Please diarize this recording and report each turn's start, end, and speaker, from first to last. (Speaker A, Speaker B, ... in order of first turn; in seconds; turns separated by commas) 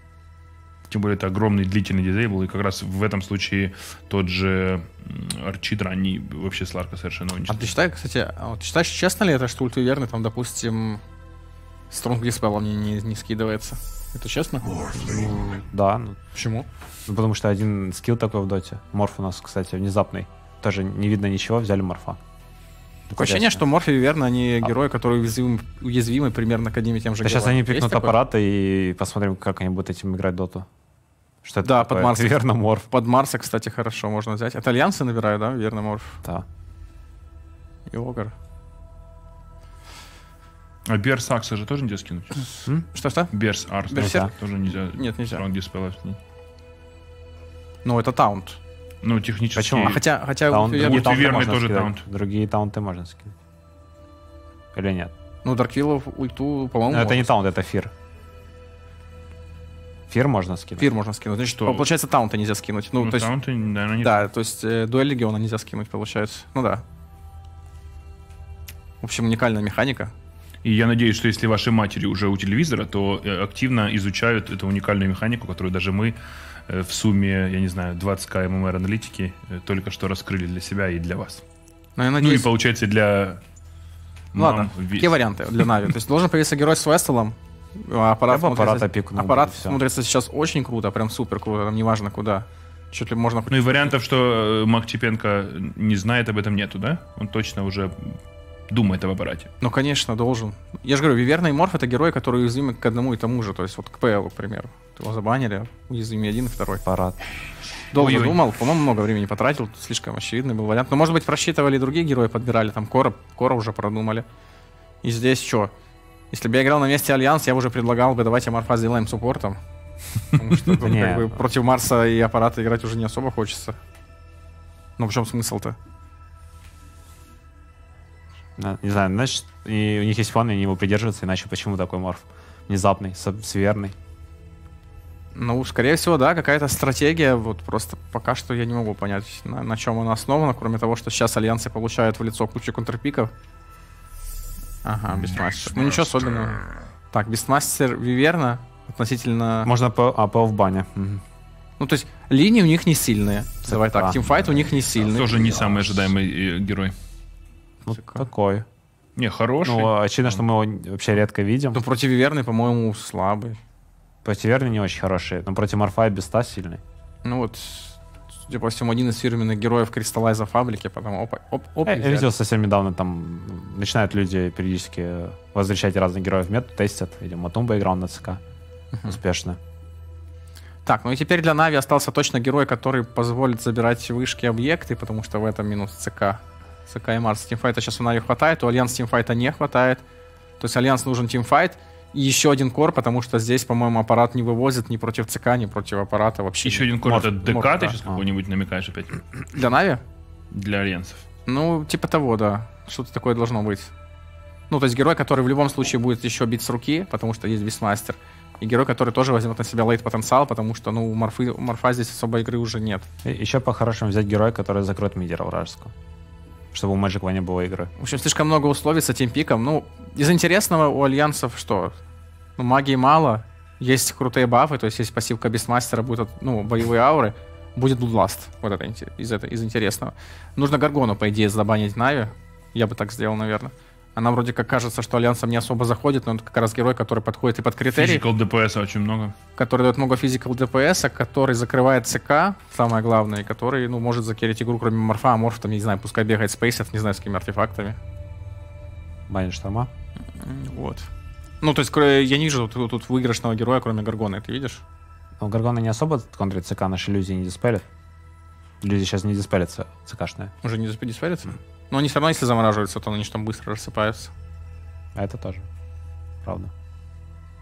Speaker A: 0.9-7.8, Speaker B: 7.5-11.0, Speaker B: 11.9-14.9, Speaker C: 15.0-16.2, Speaker B: 16.3-16.7, Speaker C: 17.1-22.2, Speaker C: 23.1-23.6, Speaker B: 23.1-28.2, Speaker C: 27.2-30.7, Speaker C: 31.4-32.9, Speaker B: 31.6-36.2, Speaker B: 37.9-38.3, Speaker A: 40.9-42.6, Speaker B: 42.9-43.3, Speaker A: 43.3-46.2, Speaker B: 43.9-44.3, Speaker C: 44.0-44.3, Speaker B: 44.9-45.4, Speaker B: 47.8-48.6, Speaker A: 49.0-50.0, Speaker C: 49.5-53.4, Speaker B: 49.8-51.4, Speaker A: 50.7-52.0, Speaker C: 54.7-55.1, Speaker B: 55.4-57.3, Speaker C: 56.9-57.9, Speaker C: 60.1-60.9, Speaker B: 60.8-63.3, Speaker A: 63.0-64.3, Speaker B: 64.0-66.8, Speaker B: 69.0-70.1, Speaker A: 70.6-81.4, Speaker B: 82.0-82.5, Speaker A: 82.2-83.4, Speaker A: 84.3-85.1, Speaker B: 84.4-93.9, Speaker C: 88.3-89.8, Speaker A: 93.5-99.5, Speaker B: 99.6-106.8, Speaker C: 106.9-107.2, Speaker B: 107.9-114.3, Speaker A: 108.0-108.4, Speaker B: 115.0-115.7, Speaker B: 116.3-119.6, Speaker B: 120.3-123.8, Speaker C: 120.8-121.3, Speaker B: 125.0-125.8, Speaker C: 128.6-133.9, Speaker B: 135.3-143.3, Speaker B: 144.8-149.7, Speaker C: 149.7-151.2, Speaker B: 151.8-155.4, Speaker C: 153.7-154.2, Speaker A: 155.1-156.9, Speaker C: 157.8-158.7, Speaker B: 157.9-158.3, Speaker A: 159.2-160.4, Speaker C: 159.7-161.8, Speaker B: 161.7-163.6, Speaker C: 164.2-166.8, Speaker B: 167.2-172.3, Speaker C: 171.9-178.4, Speaker C: 179.1-179.6, Speaker B: 180.8-190.0, Speaker B: 190.6-198.0, Speaker A: 196.6-199.4, Speaker C: 197.1-198.2, Speaker B: 199.6-200.0, Speaker A: 200.5-201.3, Speaker B: 201.5-203.9, Speaker B: 204.7-213.1, Speaker C: 213.2-215.9, Speaker C: 216.7-217.9, Speaker B: 218.0-222.0, Speaker B: 222.6-238.2, Speaker A: 237.9-239.3, Speaker B: 239.6-248.0, Speaker C: 249.3-249.9, Speaker B: 250.4-251.1, Speaker B: 251.6-254.8, Speaker C: 255.4-257.9, Speaker C: 258.8-260.5, Speaker B: 260.6-264.3, Speaker C: 265.1-265.7, Speaker C: 266.4-266.7